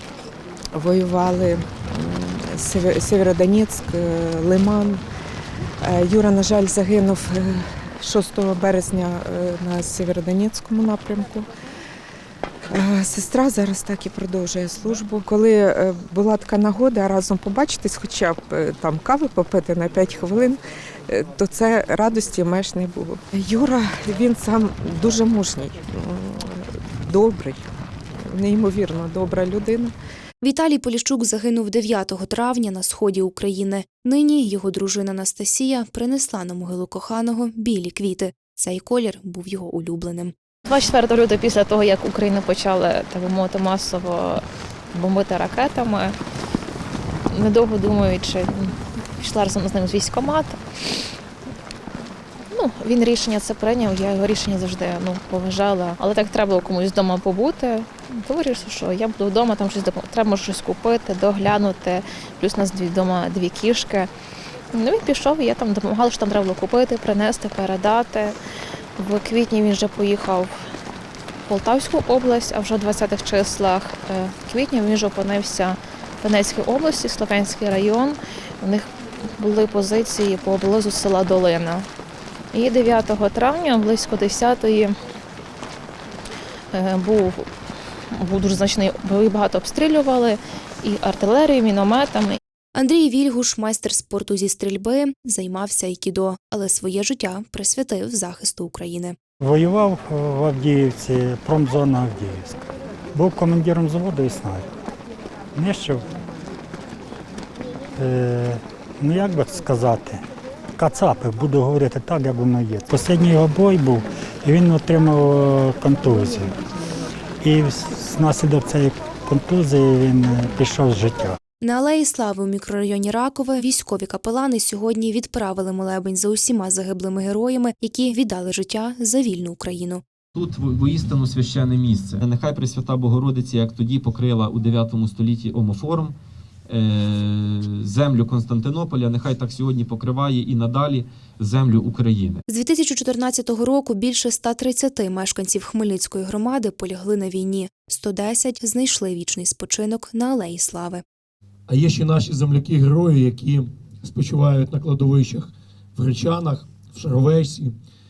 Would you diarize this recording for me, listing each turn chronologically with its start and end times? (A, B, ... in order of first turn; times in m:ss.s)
0:00.7-0:05.0 A
0:05.8-0:11.5 A
0:12.7-0:27.7 A
0:28.2-0:29.9 A
0:30.4-0:40.3 B
0:40.7-0:44.4 C
0:44.9-0:46.1 C
0:47.3-0:50.6 C
0:52.5-1:04.1 C
1:04.7-1:08.3 C
1:09.0-1:10.6 C
1:11.5-1:21.8 C
1:22.5-1:24.9 C
1:26.7-1:27.5 C
1:28.1-1:32.4 C
1:32.8-1:39.2 B
1:39.4-1:42.6 D
1:43.1-1:44.7 D
1:45.5-1:46.0 D
1:48.0-1:50.2 D
1:50.8-1:56.5 D
1:57.4-2:01.4 D
2:01.6-2:10.0 B
2:10.3-2:16.1 E
2:16.7-2:22.4 E
2:22.5-2:31.0 B
2:31.7-2:37.7 F